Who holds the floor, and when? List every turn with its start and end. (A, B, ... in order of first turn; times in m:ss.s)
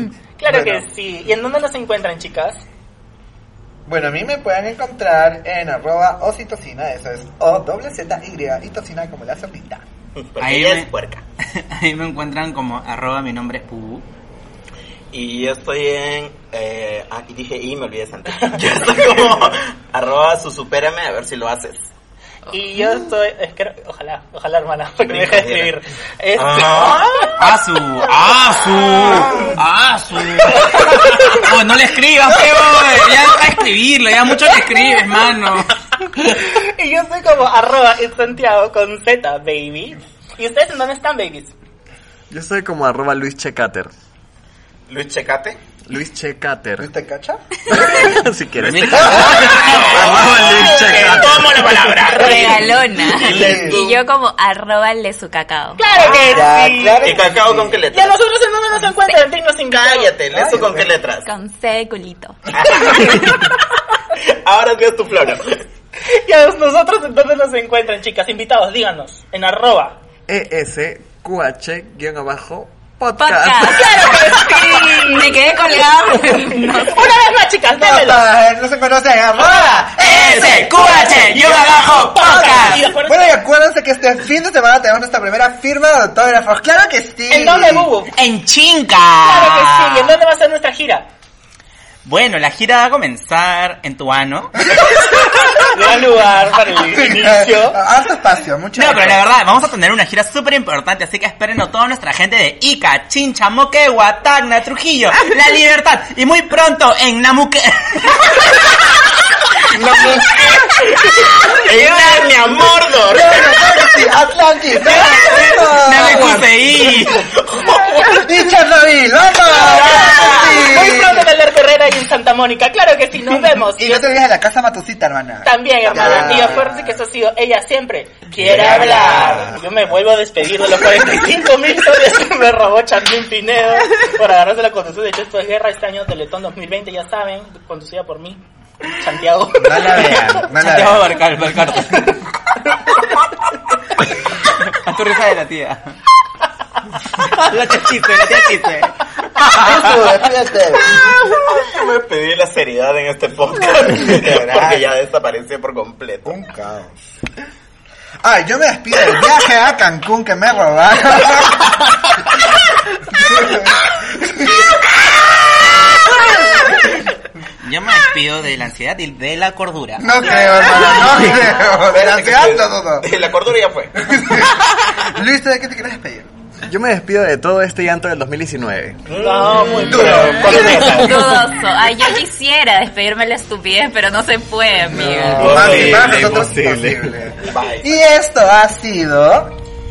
0:00.4-0:02.6 A
0:00.5-0:00.8 B
0:03.8-0:09.8 B
0:10.2-0:11.2 C
0:10.4-0:10.9 D
0:11.6-0:14.0 D
0:15.1-0:21.8 C
0:22.5-0:27.3 A
0:25.0-0:25.7 C
0:26.3-0:27.3 C
0:27.4-0:35.7 D
0:30.5-0:31.4 A
0:32.5-0:32.9 B
0:36.1-0:41.5 A
0:42.3-0:43.9 E
0:44.9-0:45.6 C
0:45.9-0:46.9 E
0:46.8-0:48.0 B
0:47.7-0:51.5 E
0:48.6-0:50.7 D
0:48.9-0:50.9 B
0:49.7-0:54.0 C
0:50.5-0:52.6 A
0:52.1-0:56.0 F
0:53.1-0:53.8 B
0:55.8-0:57.2 A
0:56.0-0:56.2 C
0:56.1-0:57.8 B
0:57.0-0:58.2 C
0:57.9-1:00.1 A
0:59.7-1:01.3 C
1:00.3-1:00.9 B
1:01.2-1:02.4 F
1:02.5-1:03.6 C
1:04.1-1:05.6 C
1:06.0-1:10.0 A
1:10.3-1:14.4 E
1:13.2-1:17.2 F
1:14.0-1:15.3 A
1:16.3-1:18.3 A
1:17.8-1:21.1 B
1:19.9-1:22.9 D
1:20.8-1:23.4 A
1:23.0-1:27.9 B
1:27.3-1:28.1 A
1:28.1-1:30.2 D
1:29.2-1:31.1 A
1:32.0-1:35.0 D
1:35.6-1:37.8 A
1:36.9-1:39.3 B
1:38.7-1:48.7 D
1:49.6-1:53.8 C
1:51.6-1:52.2 D
1:53.1-1:56.6 B
1:54.8-1:57.3 D
1:54.9-1:55.4 C
1:57.1-1:58.2 C
1:58.0-2:01.3 B
1:59.5-2:00.6 C
1:59.8-2:04.2 A
2:03.7-2:07.0 B
2:05.4-2:20.4 A
2:05.8-2:06.7 C
2:08.4-2:09.5 C
2:08.4-2:09.6 B
2:19.6-2:21.2 B
2:20.4-2:22.3 D
2:24.5-2:26.0 D
2:27.2-2:30.0 D
2:29.5-2:31.0 B
2:31.3-2:36.3 C
2:34.0-2:34.9 B
2:36.2-2:37.0 B
2:38.2-2:42.2 B
2:43.1-2:45.2 B
2:46.1-2:46.7 B
2:47.6-2:50.1 D
2:50.0-2:53.1 B
2:50.8-2:54.1 C
2:54.0-2:56.3 B
2:56.7-2:59.0 E
2:59.0-3:01.4 C
2:59.2-3:00.8 A
2:59.8-3:00.5 B
3:00.4-3:05.5 F
3:00.8-3:01.2 E
3:04.9-3:07.1 E
3:05.3-3:09.6 B
3:05.4-3:06.2 C
3:07.4-3:08.0 C